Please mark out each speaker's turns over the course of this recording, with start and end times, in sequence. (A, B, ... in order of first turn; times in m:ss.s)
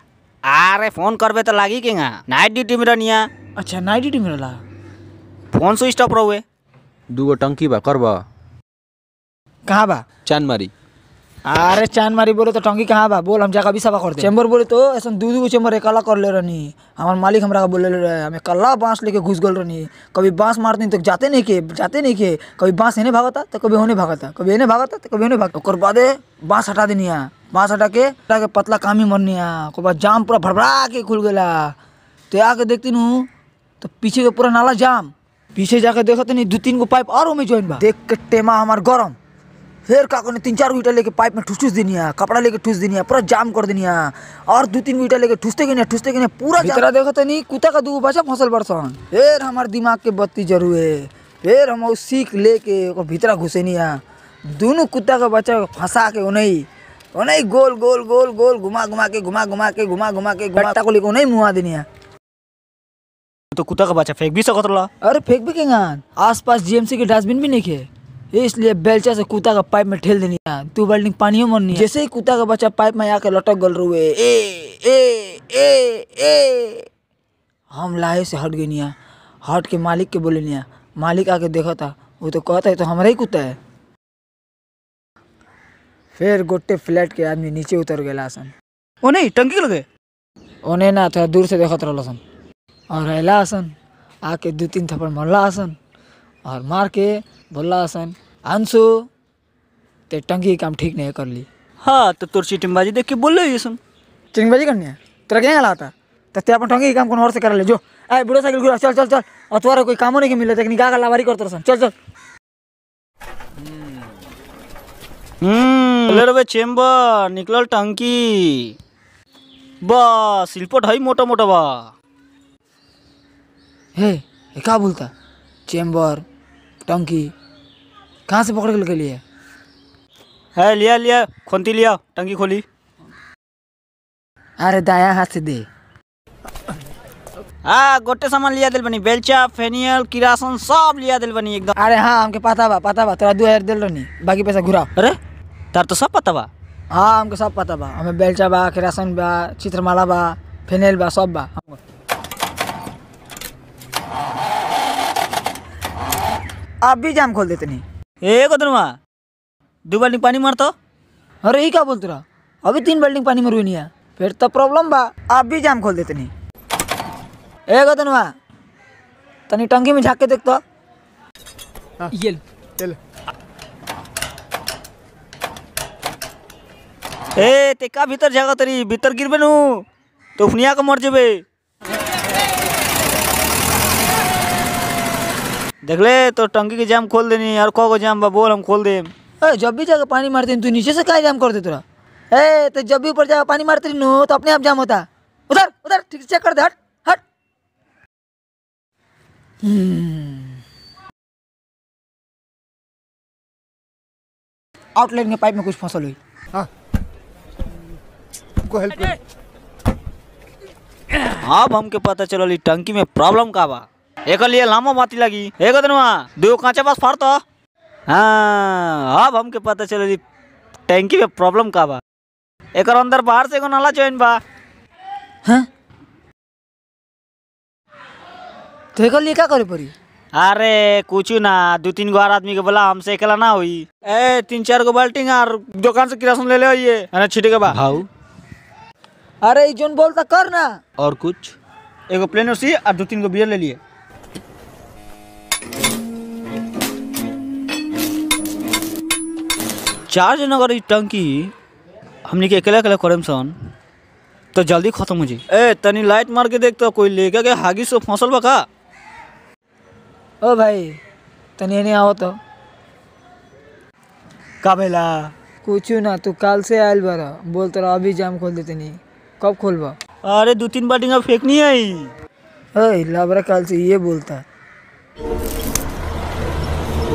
0:00.5-0:03.3 A
0:03.6-0:04.6 B
0:05.5-0:06.4 A
0:07.1-0:08.2 C
0:09.7-0:10.0 B
0:10.2-0:10.7 C
0:11.5-0:31.8 B
0:32.3-0:33.3 B
0:33.8-0:39.2 B
0:39.9-0:54.0 B
0:54.5-1:01.9 B
1:03.5-1:04.9 A
1:05.0-1:16.9 B
1:17.7-1:18.9 B
1:19.4-1:23.6 B
1:26.1-1:28.5 B
1:29.0-1:29.8 A
1:30.7-1:32.2 B
1:32.9-1:33.7 B
1:34.2-1:35.8 B
1:36.4-1:39.1 B
1:40.1-1:41.5 B
1:41.8-1:43.8 A
1:44.3-1:51.9 B
1:55.4-1:58.8 A
1:59.8-2:01.9 A
2:04.0-2:05.1 B
2:05.7-2:06.2 B
2:06.8-2:07.3 B
2:08.3-2:09.2 B
2:10.6-2:12.6 A
2:14.6-2:15.7 B
2:17.6-2:21.7 A
2:21.8-2:24.9 B
2:25.7-2:26.5 A
2:26.9-2:31.8 B
2:36.8-2:37.8 B
2:38.2-2:39.0 A
2:39.9-2:40.7 A
2:41.4-2:46.3 B
2:47.7-2:48.3 B
2:49.5-2:50.6 B
2:52.1-2:52.9 B
2:57.4-2:59.8 A
3:00.4-3:01.4 A
3:05.8-3:09.1 A
3:09.4-3:17.2 B
3:19.6-3:20.6 B
3:25.0-3:26.2 B
3:31.4-3:37.4 A
3:38.1-3:40.2 A
3:40.9-3:42.0 A
3:42.8-3:44.4 A
3:48.9-3:49.9 B
3:50.3-3:58.0 A
3:57.8-3:58.1 C
3:59.4-4:00.8 B
4:01.0-4:01.5 C
4:01.1-4:01.4 A
4:02.1-4:03.8 A
4:10.1-4:11.5 A
4:12.2-4:13.6 A
4:14.5-4:18.6 A
4:20.4-4:21.0 B
4:21.6-4:22.4 B
4:24.6-4:25.3 A
4:25.6-4:30.0 B
4:30.2-4:32.1 A
4:32.8-4:34.4 B